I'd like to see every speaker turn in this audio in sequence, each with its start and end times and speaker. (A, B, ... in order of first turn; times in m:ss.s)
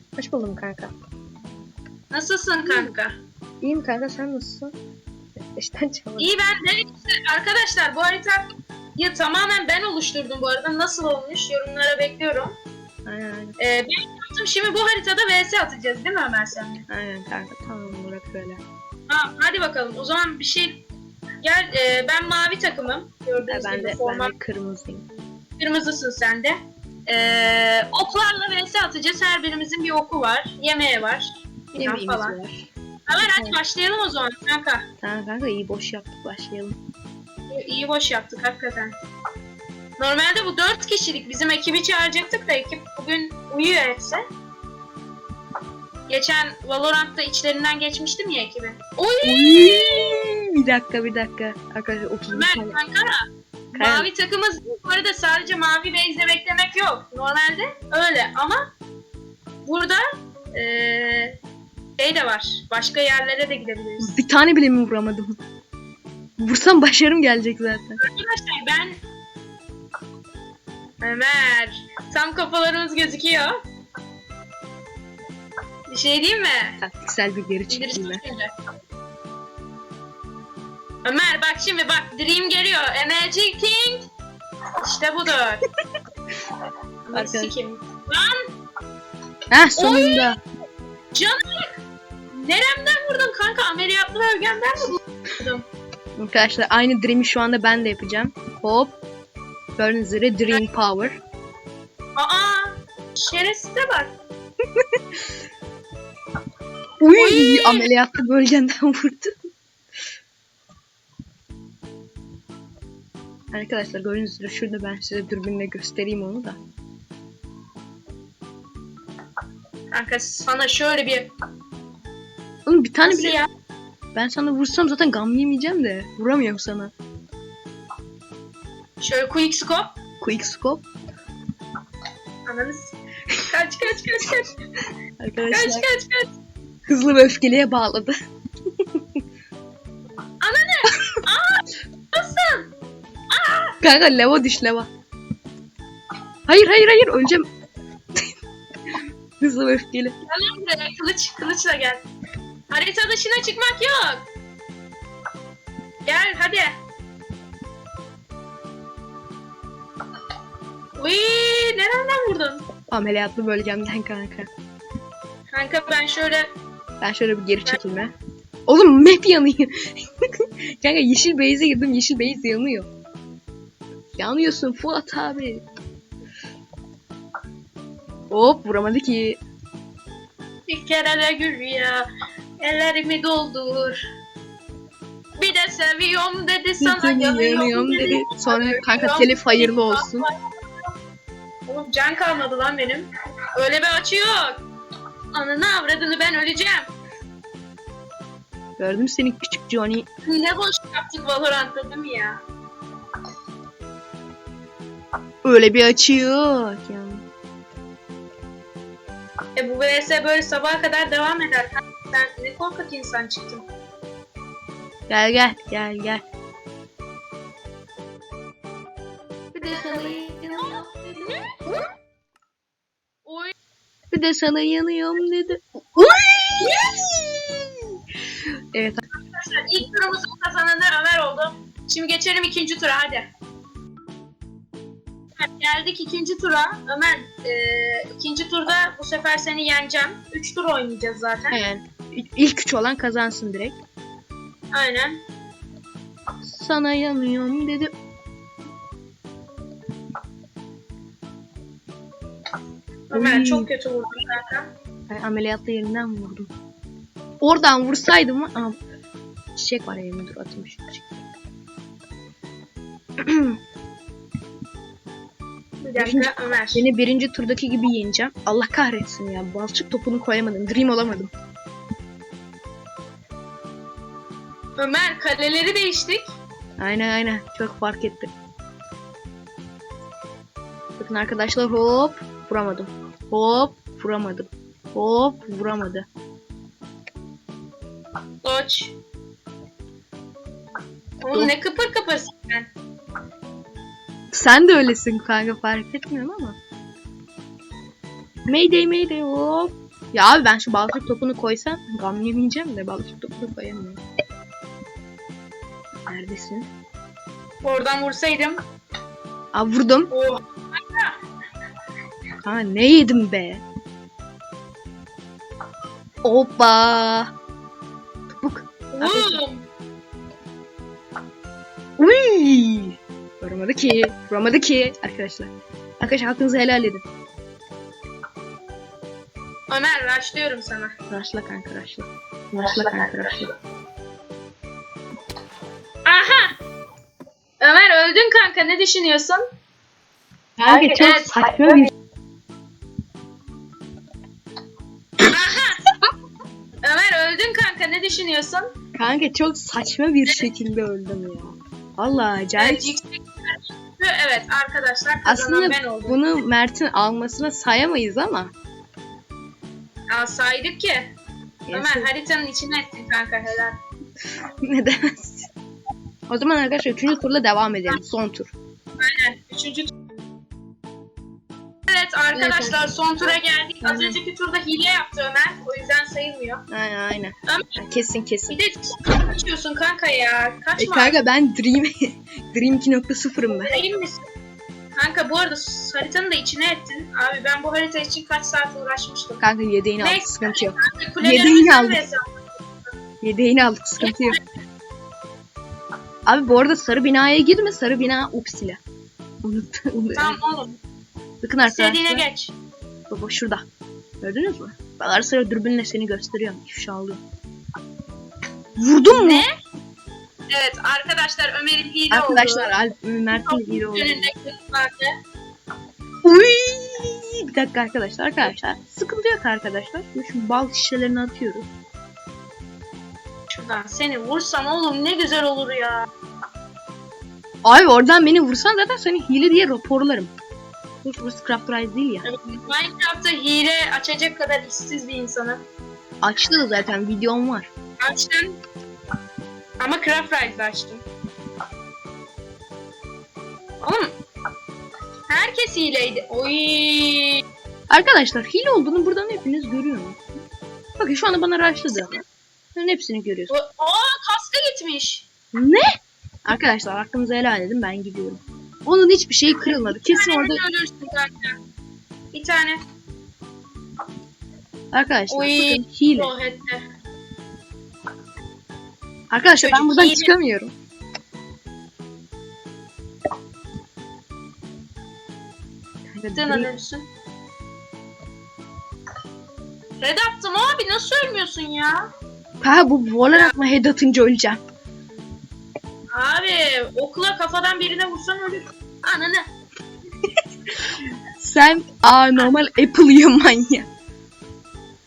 0:00.2-0:00.9 A
0:02.1-0:03.2 B
0:02.6-0:02.9 A
0:03.6-0:04.7 A
0:05.5-0:06.3 A
0:06.2-0:12.5 B
0:13.0-0:13.6 A
0:13.6-0:16.8 B
0:16.9-0:18.6 A
0:19.1-0:20.8 B
0:21.4-0:24.3 B
0:23.4-0:25.1 A
0:25.6-0:32.4 B
0:31.7-0:32.7 A
0:33.1-0:34.8 B
0:33.2-0:33.6 A
0:35.0-0:36.8 A
0:37.5-0:39.0 B
0:40.0-0:44.2 B
0:46.1-0:50.2 B
0:49.2-0:52.8 A
0:52.3-0:58.6 B
0:53.7-0:54.1 A
0:59.6-1:00.0 B
1:00.5-1:01.4 B
1:02.0-1:04.2 B
1:04.0-1:05.4 A
1:06.4-1:08.0 A
1:08.0-1:09.0 B
1:11.0-1:13.5 B
1:15.9-1:16.8 B
1:16.8-1:18.2 A
1:17.7-1:18.5 B
1:21.0-1:24.0 B
1:24.8-1:25.6 B
1:27.1-1:27.5 A
1:27.1-1:28.5 B
1:29.5-1:30.4 A
1:29.8-1:30.4 B
1:31.1-1:31.7 B
1:32.3-1:35.6 B
1:36.2-1:39.0 A
1:39.8-1:41.2 A
1:42.2-1:44.2 B
1:44.7-1:45.2 A
1:47.0-1:49.3 A
1:47.1-1:47.9 B
1:53.5-1:56.6 A
1:59.9-2:01.3 B
2:02.6-2:03.4 A
2:03.1-2:03.5 B
2:04.1-2:06.9 A
2:09.0-2:09.9 B
2:10.2-2:10.8 A
2:12.4-2:14.5 B
2:15.2-2:15.8 A
2:15.5-2:16.3 B
2:16.9-2:18.1 A
2:18.7-2:19.2 A
2:20.4-2:22.7 B
2:23.3-2:23.8 B
2:23.8-2:24.9 A
2:26.5-2:27.5 A
2:28.9-2:30.1 A
2:30.2-2:32.0 B
2:32.7-2:34.3 B
2:36.0-2:36.7 B
2:41.0-2:42.6 B
2:42.9-2:44.5 A
2:45.5-2:46.5 B
2:47.0-2:48.1 A
2:48.6-2:52.9 A
2:54.2-2:55.6 A
2:58.3-2:59.4 A
3:00.7-3:02.1 B
3:02.6-3:04.0 B
3:05.4-3:10.9 B
3:06.8-3:10.3 A
3:11.6-3:14.6 B
3:15.3-3:16.9 B
3:18.8-3:20.0 A
3:20.2-3:22.4 B
3:25.4-3:27.2 A
3:29.6-3:33.6 B
3:35.1-3:36.2 A
3:39.5-3:41.0 A
3:39.7-3:41.6 B
3:43.2-3:43.5 B
3:44.1-3:49.0 A
3:46.6-3:47.0 B
3:49.1-3:53.3 B
3:55.4-4:01.6 B
4:01.5-4:03.8 A
4:04.7-4:05.2 B
4:06.4-4:07.9 A
4:13.1-4:14.7 B
4:13.1-4:13.7 A
4:15.1-4:16.5 A
4:17.4-4:18.8 A
4:19.5-4:21.2 A
4:23.2-4:23.6 A
4:25.8-4:26.9 B
4:26.0-4:31.3 A
4:34.8-4:36.3 B
4:36.8-4:38.3 A
4:41.0-4:46.1 A
4:48.4-4:49.0 B
4:51.2-4:52.7 B
4:54.3-4:56.6 A
4:58.5-5:04.0 A
5:06.1-5:06.7 A
5:07.6-5:08.6 B
5:09.5-5:10.1 A
5:10.1-5:11.2 B
5:12.4-5:13.6 A
5:16.2-5:17.3 A
5:18.3-5:19.4 A
5:18.9-5:19.6 B
5:22.0-5:27.0 A
5:29.7-5:31.0 B
5:31.1-5:33.5 A
5:36.0-5:36.6 B
5:37.6-5:39.4 B
5:40.6-5:41.9 A
5:40.7-5:41.8 B
5:45.2-5:45.9 B
5:46.8-5:48.7 B
5:49.0-5:53.0 A
5:52.6-5:56.3 B
5:55.2-5:58.5 A
6:00.1-6:01.1 B
6:01.7-6:02.1 A
6:01.7-6:03.8 B
6:04.6-6:05.5 A
6:06.3-6:08.5 A
6:09.0-6:09.9 B
6:11.9-6:16.6 B
6:12.3-6:12.9 A
6:13.8-6:14.2 A
6:16.7-6:18.6 A
6:17.5-6:17.7 B
6:18.5-6:21.2 B
6:20.8-6:23.8 A
6:23.5-6:24.2 B
6:25.0-6:29.4 B
6:29.4-6:32.0 A
6:30.0-6:32.5 B
6:33.2-6:34.4 A
6:34.0-6:34.4 B
6:36.2-6:38.8 A
6:39.4-6:40.4 A
6:40.1-6:40.8 B
6:41.4-6:42.2 A
6:41.6-6:42.5 B
6:43.1-6:43.6 A
6:44.2-6:47.2 A
6:48.8-6:49.4 A
6:49.1-6:49.6 B
6:50.5-6:52.7 B
6:52.1-6:54.3 A
6:53.3-6:55.2 B
6:56.2-7:01.7 A
7:03.5-7:06.1 B
7:07.6-7:10.3 A
7:11.0-7:12.2 A
7:12.2-7:15.6 B
7:16.2-7:17.7 A
7:18.0-7:18.6 B
7:19.8-7:21.0 B
7:23.8-7:24.1 B
7:25.3-7:27.4 B
7:27.9-7:30.2 A
7:31.0-7:32.2 A
7:32.7-7:33.5 A
7:33.5-7:35.3 B
7:35.5-7:40.6 A
7:39.5-7:41.6 B
7:42.3-7:42.8 B
7:44.9-7:46.3 A
7:45.3-7:46.8 B
7:49.3-7:50.7 A
7:49.6-7:50.3 B
7:56.1-7:56.7 A
7:56.3-7:57.0 B
8:00.0-8:02.1 B
8:02.6-8:04.6 A
8:03.3-8:03.6 B
8:06.1-8:09.5 B
8:10.8-8:13.9 A